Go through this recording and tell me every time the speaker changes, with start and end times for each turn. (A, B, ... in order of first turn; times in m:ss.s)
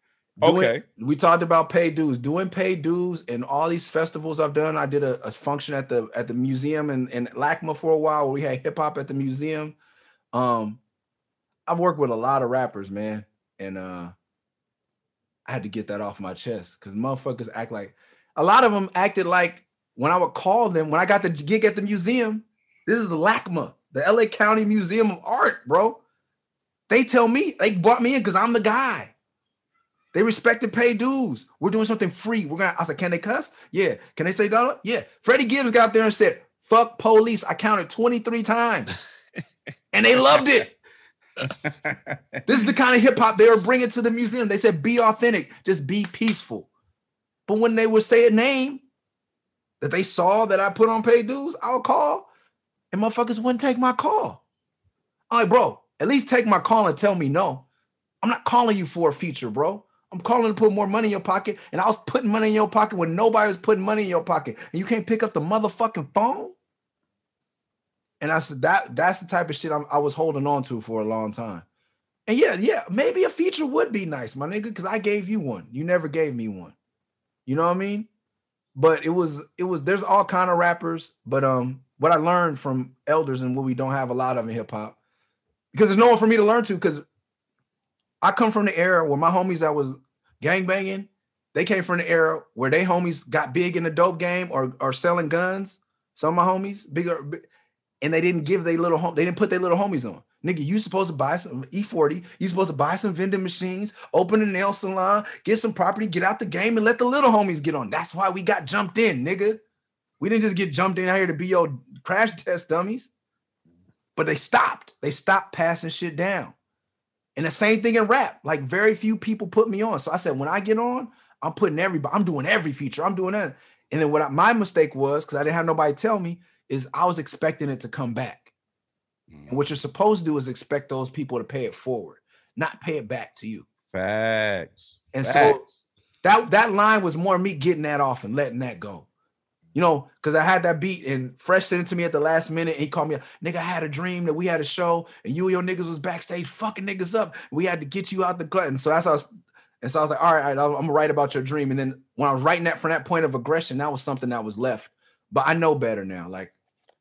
0:00.4-0:09.8 A
0:00.4-0:00.8 B
0:10.3-0:10.8 A
0:11.7-0:14.1 A
0:15.5-0:26.0 A
0:26.9-0:29.1 A
0:30.1-0:38.9 A
0:39.9-0:40.8 A
0:41.4-0:42.2 B
0:42.5-0:46.7 A
0:47.5-0:48.8 A
0:49.8-0:52.3 A
0:52.9-0:54.4 A
0:55.3-0:57.6 A
0:58.2-1:06.6 A
1:08.2-1:11.6 A
1:12.3-1:16.8 A
1:17.5-1:18.1 A
1:18.8-1:25.0 A
1:25.7-1:27.0 A
1:28.2-1:37.4 A
1:38.0-1:49.6 A
1:50.2-1:53.1 A
1:54.2-1:56.6 A
1:57.4-2:08.5 A
2:09.3-2:09.6 B
2:09.5-2:13.7 A
2:13.9-2:15.7 B
2:15.1-2:15.6 A
2:16.2-2:19.1 A
2:19.7-2:29.3 A
2:29.8-2:36.6 A